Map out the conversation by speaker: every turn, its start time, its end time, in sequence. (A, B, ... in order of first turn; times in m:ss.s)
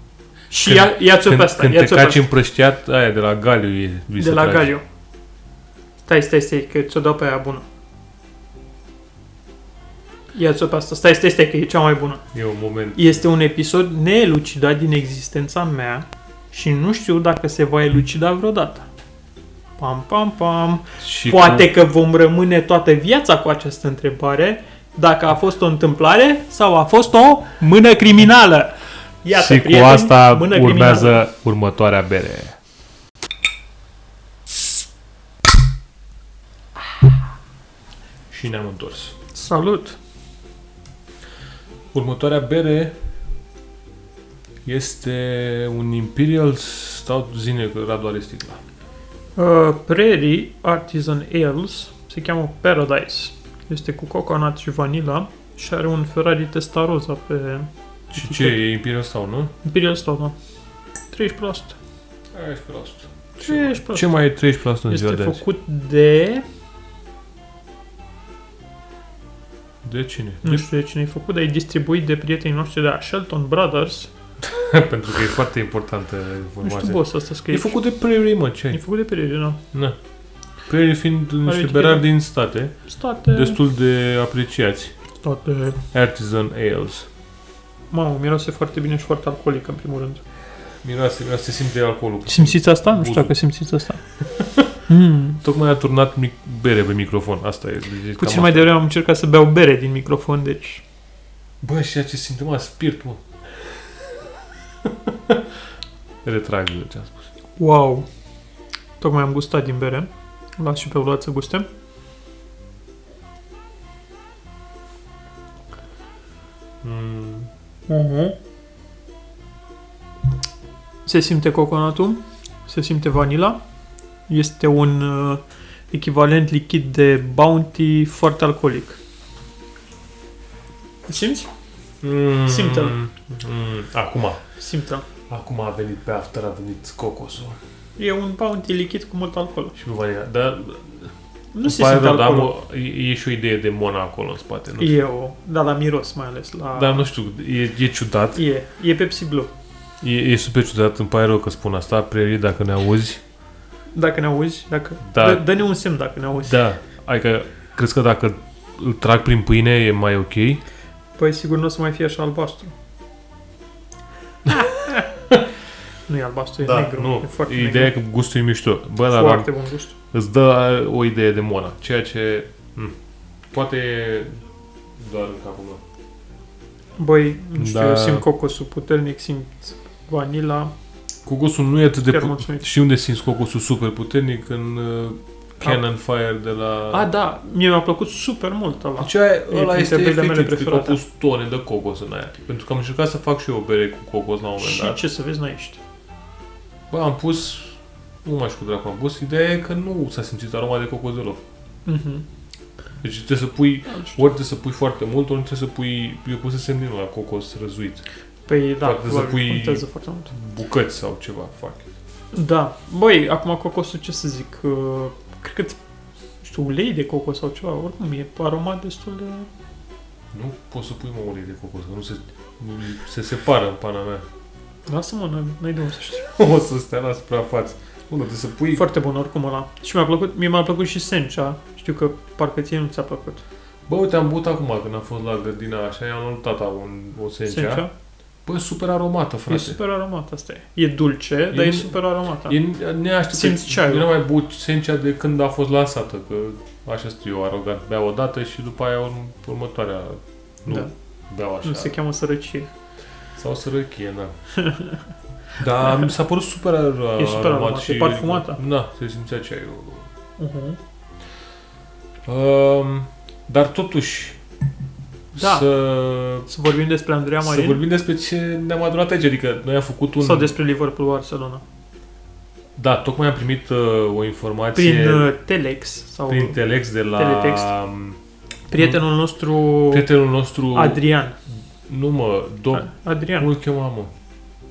0:00.5-0:02.2 A
0:00.6-0:04.7 B
0:04.2-0:04.8 A
0:06.1-0:07.6 A
0:10.3-0:12.2 A
0:12.3-0:13.2 B
0:13.0-0:18.9 A
0:19.8-0:31.2 A
0:21.0-0:21.7 B
0:29.3-0:32.6 B
0:38.3-0:39.2 B
0:39.3-0:40.0 A
0:41.9-0:43.0 B
0:44.6-0:48.6 B
0:49.4-0:58.6 A
0:58.1-0:59.5 B
0:59.6-1:00.4 A
1:01.1-1:01.8 A
1:02.3-1:05.4 B
1:03.4-1:04.2 A
1:04.9-1:06.4 A
1:09.8-1:10.7 B
1:10.4-1:14.1 A
1:14.4-1:18.8 B
1:16.6-1:17.8 A
1:18.7-1:19.6 A
1:20.7-1:22.8 B
1:21.4-1:22.1 A
1:22.9-1:23.6 A
1:23.3-1:24.9 B
1:25.2-1:25.8 A
1:25.9-1:27.1 B
1:27.9-1:30.2 A
1:30.8-1:33.3 B
1:32.3-1:34.0 A
1:34.2-1:34.7 B
1:34.9-1:35.4 A
1:35.4-1:38.7 B
1:38.2-1:40.8 A
1:41.6-1:44.2 B
1:44.8-1:45.5 B
1:46.2-1:47.2 B
1:47.6-1:48.1 A
1:49.0-1:51.7 A
1:56.8-1:57.5 B
1:57.9-1:58.4 A
2:01.0-2:03.6 A
2:04.3-2:05.4 A
2:05.9-2:09.0 A
2:11.1-2:11.5 A
2:12.0-2:14.4 B
2:12.5-2:13.0 A
2:14.6-2:15.1 A
2:15.3-2:17.6 B
2:18.0-2:19.8 A
2:19.8-2:21.1 B
2:21.5-2:22.5 A
2:21.6-2:25.0 B
2:24.8-2:27.1 A
2:26.8-2:28.4 B
2:28.4-2:29.5 A
2:30.0-2:33.2 B
2:33.9-2:36.6 A
2:35.1-2:35.4 B
2:36.5-2:40.6 B
2:41.2-2:42.8 A
2:44.5-2:45.1 A
2:46.1-2:48.0 A
2:46.6-2:49.5 B
2:49.1-2:50.0 A
2:50.1-2:53.0 B
2:53.5-2:54.3 B
2:55.0-2:55.8 B
2:57.0-3:00.7 A
2:57.6-2:58.2 B
3:01.2-3:07.0 B
3:02.1-3:02.7 A
3:06.9-3:11.0 A
3:09.0-3:15.0 B
3:14.6-3:15.8 A
3:16.9-3:21.4 B
3:21.9-3:22.2 A
3:23.0-3:28.0 B
3:23.9-3:24.2 A
3:28.5-3:30.3 A
3:28.8-3:31.9 B
3:32.3-3:35.8 A
3:36.4-3:39.5 A
3:40.3-3:44.2 B
3:44.9-3:46.3 A
3:46.3-3:48.9 B
3:48.7-3:53.4 A
3:53.9-3:57.9 B
3:57.5-3:57.9 A
3:58.4-3:59.8 B
3:59.5-4:02.6 A
4:01.5-4:01.9 B
4:02.5-4:11.9 B
4:03.3-4:04.1 A
4:11.6-4:12.7 A
4:13.4-4:14.4 B
4:14.6-4:15.0 A
4:15.6-4:20.1 B
4:15.8-4:16.1 A
4:17.2-4:18.6 A
4:20.4-4:20.8 A
4:22.3-4:24.4 B
4:25.3-4:26.5 B
4:25.4-4:25.7 A
4:26.5-4:27.8 A
4:27.4-4:30.5 B
4:30.2-4:31.6 A
4:32.8-4:35.3 B
4:34.8-4:36.6 A
4:36.3-4:38.2 B
4:37.1-4:37.7 A
4:38.7-4:40.1 A
4:39.9-4:41.0 B
4:40.7-4:41.4 A
4:41.9-4:44.1 B
4:42.7-4:43.5 A